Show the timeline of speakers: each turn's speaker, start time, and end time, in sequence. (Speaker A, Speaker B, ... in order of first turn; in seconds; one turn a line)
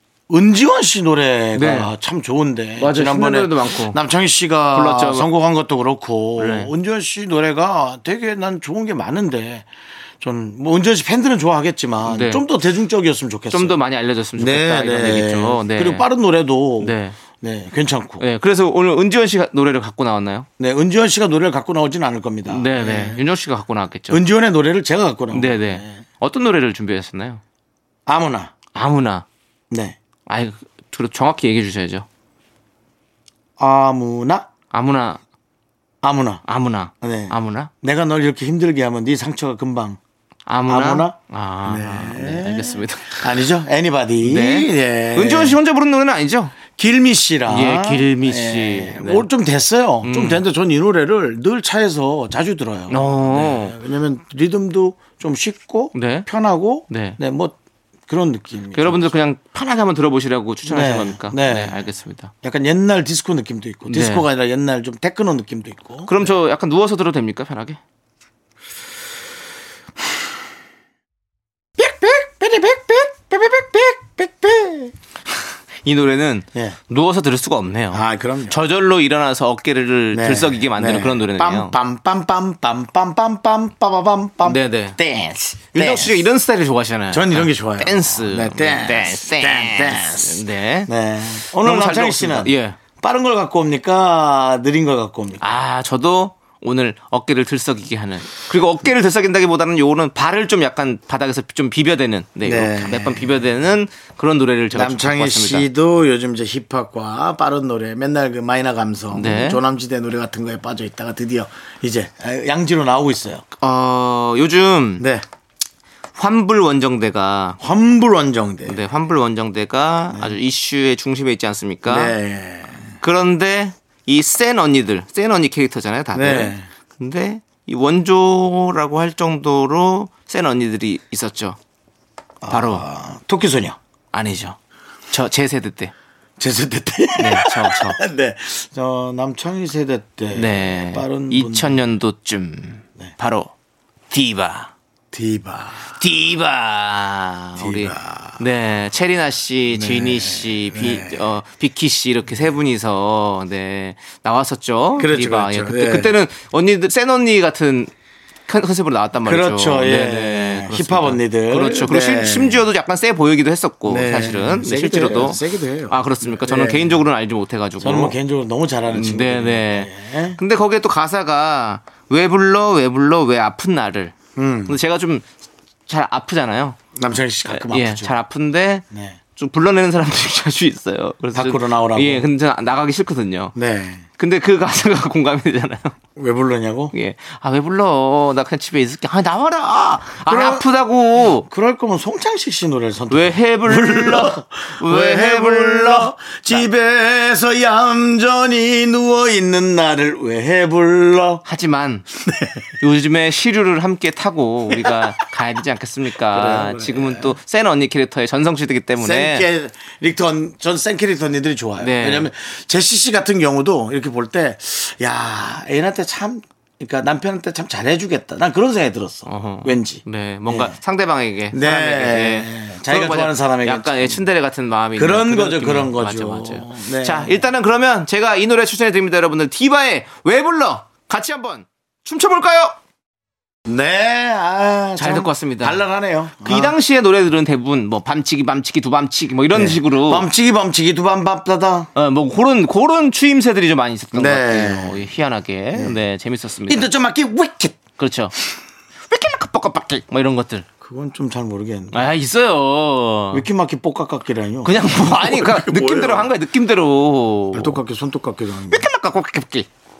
Speaker A: 0.3-9.7
Speaker B: 1.5-1.9
Speaker B: 2.8-4.0
Speaker B: 4.7-5.3
Speaker B: 6.4-6.7
Speaker A: 10.2-13.8
Speaker B: 12.1-12.4
Speaker B: 13.5-16.1
Speaker A: 14.3-18.2
Speaker B: 16.8-17.2
Speaker B: 18.2-20.5
Speaker A: 20.6-23.2
Speaker B: 22.4-24.2
Speaker A: 24.1-26.0
Speaker B: 25.3-27.4
Speaker A: 28.1-28.5
Speaker B: 28.7-29.2
Speaker A: 29.7-30.0
Speaker B: 30.3-32.0
Speaker A: 33.6-34.5
Speaker B: 34.7-35.2
Speaker A: 36.0-36.4
Speaker B: 36.5-37.7
Speaker A: 37.0-40.0
Speaker B: 40.5-43.5
Speaker A: 40.7-45.6
Speaker B: 44.2-46.6
Speaker A: 46.7-59.1
Speaker B: 47.5-49.3
Speaker B: 50.0-50.4
Speaker B: 52.9-53.7
Speaker B: 55.9-56.3
Speaker B: 56.9-57.2
Speaker B: 58.7-62.3
Speaker A: 60.7-61.8
Speaker A: 62.4-66.3
Speaker B: 63.9-64.2
Speaker B: 66.1-67.8
Speaker A: 71.8-74.9
Speaker B: 75.8-81.7
Speaker A: 77.9-78.6
Speaker A: 80.1-86.2
Speaker B: 84.4-85.0
Speaker B: 85.7-90.9
Speaker A: 87.1-95.5
Speaker B: 91.6-92.8
Speaker B: 95.4-105.7
Speaker A: 102.4-103.4
Speaker A: 104.7-113.4
Speaker B: 109.1-109.6
Speaker B: 113.6-115.0
Speaker A: 115.0-115.2
Speaker B: 116.2-117.6
Speaker A: 117.6-118.8
Speaker B: 118.7-122.2
Speaker A: 121.8-122.9
Speaker B: 123.0-131.6
Speaker A: 126.1-126.7
Speaker A: 132.4-133.8
Speaker B: 132.5-132.8
Speaker B: 134.1-134.6
Speaker B: 135.1-135.9
Speaker A: 136.4-141.8
Speaker B: 137.2-138.0
Speaker B: 140.3-143.5
Speaker B: 144.1-144.7
Speaker A: 145.1-146.0
Speaker B: 145.9-157.9
Speaker A: 147.6-148.5
Speaker A: 149.7-151.3
Speaker A: 155.0-156.1
Speaker B: 158.5-168.2
Speaker A: 159.2-162.6
Speaker A: 163.9-167.0
Speaker A: 167.8-170.4
Speaker B: 168.9-175.2
Speaker A: 174.3-174.8
Speaker B: 175.9-176.8
Speaker A: 176.9-178.2
Speaker B: 177.5-178.8
Speaker A: 178.9-179.2
Speaker B: 179.3-183.5
Speaker A: 181.3-182.3
Speaker A: 183.5-184.0
Speaker B: 184.2-186.0
Speaker A: 186.2-186.9
Speaker B: 186.9-191.4
Speaker A: 190.2-190.7
Speaker A: 191.2-201.4
Speaker B: 193.1-196.7
Speaker B: 201.4-202.1
Speaker A: 202.2-202.7
Speaker B: 202.8-209.4
Speaker A: 204.7-205.1
Speaker A: 206.3-207.3
Speaker A: 209.0-220.8
Speaker B: 211.8-212.3
Speaker B: 219.3-232.8
Speaker A: 221.5-224.2
Speaker A: 224.9-227.5
Speaker A: 233.7-236.7
Speaker B: 235.0-235.8
Speaker B: 236.4-240.3
Speaker A: 239.5-241.9
Speaker B: 241.9-246.9
Speaker A: 244.1-245.1
Speaker A: 245.7-246.0
Speaker A: 246.7-247.8
Speaker B: 248.0-248.3
Speaker B: 249.1-250.7
Speaker A: 250.8-252.1
Speaker B: 251.9-253.4
Speaker A: 253.3-256.3
Speaker B: 254.6-257.8
Speaker A: 257.5-258.9
Speaker B: 258.7-259.7